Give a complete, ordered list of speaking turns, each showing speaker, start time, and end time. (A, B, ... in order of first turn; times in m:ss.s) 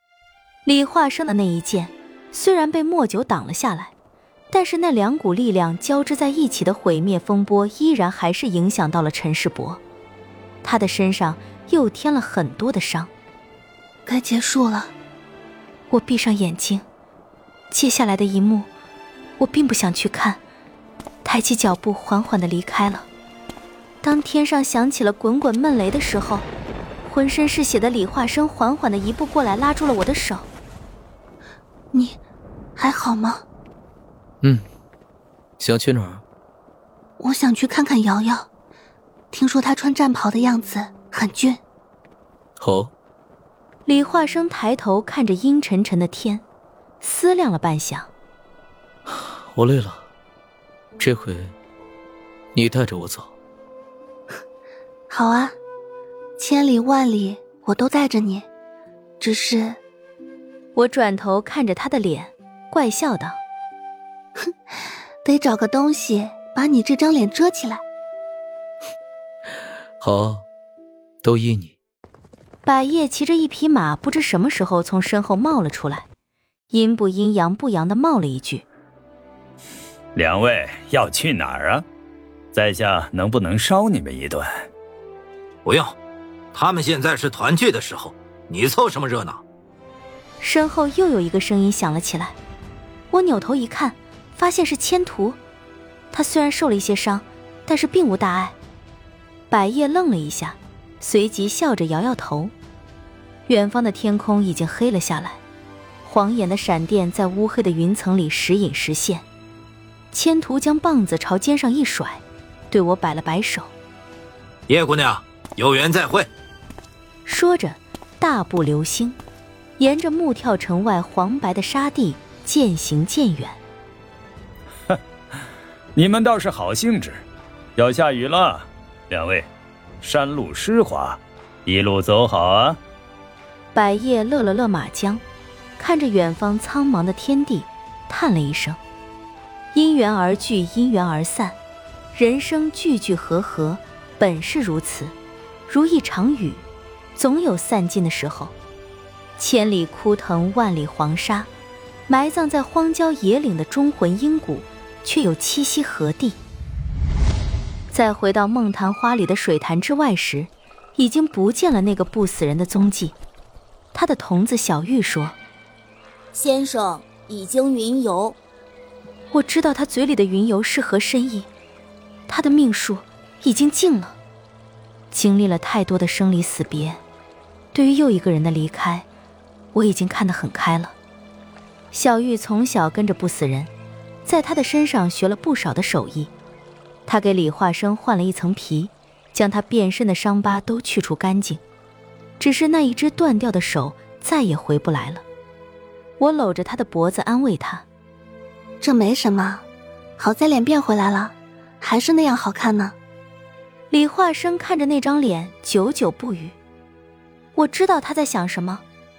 0:00.6-0:03.9 A
0:04.5-0:09.8 A
0:10.6-0:13.1 A
0:14.1-0:14.9 B
0:15.9-0:16.8 A
0:17.7-0:18.7 A
0:19.4-0:20.4 A
0:21.2-0:23.1 A
0:24.0-0:26.4 A
0:27.0-0:30.5 A
0:32.8-0:33.4 B
0:35.6-0:36.2 C
0:37.2-0:38.4 B
0:39.3-0:41.6 B
0:42.6-0:42.9 C
0:43.8-0:46.4 A
0:47.0-0:48.1 A
0:49.1-0:50.0 C
0:51.0-0:51.5 C
0:52.5-0:53.3 C
0:55.1-0:55.5 B
0:56.4-0:58.4 B
0:59.2-0:59.8 B
1:00.7-1:03.4 A
1:05.2-1:07.8 B
1:10.0-1:10.4 C
1:11.2-1:11.7 C
1:12.6-1:16.1 A
1:16.7-1:18.6 A
1:20.1-1:21.8 D
1:22.5-1:24.6 D
1:25.6-1:25.9 E
1:26.5-1:29.4 E
1:30.4-1:32.4 A
1:33.1-1:35.4 A
1:36.1-1:38.6 A
1:39.5-1:42.5 A
1:43.5-1:45.4 A
1:46.0-1:49.2 A
1:50.1-1:53.7 A
1:54.7-1:56.3 E
1:57.2-1:59.2 A
1:59.8-2:03.6 A
2:06.0-2:07.2 D
2:07.8-2:09.5 D
2:10.0-2:12.8 D
2:13.7-2:15.2 A
2:15.8-2:18.8 A
2:19.7-2:21.6 A
2:22.1-2:25.1 A
2:25.7-2:26.6 A
2:27.2-2:28.5 A
2:29.4-2:31.5 A
2:32.1-2:36.4 A
2:37.9-2:43.2 A
2:43.9-2:45.4 A
2:46.3-2:48.4 F
2:49.3-2:51.5 A
2:52.3-2:54.2 A
2:55.1-2:57.0 A
2:57.7-2:59.1 A
2:59.7-3:00.9 A
3:01.9-3:03.7 A
3:04.2-3:06.3 A
3:07.0-3:11.6 A
3:12.4-3:15.2 A
3:16.2-3:17.8 A
3:18.8-3:19.6 B
3:20.2-3:22.9 B
3:23.9-3:26.5 A
3:27.5-3:28.8 A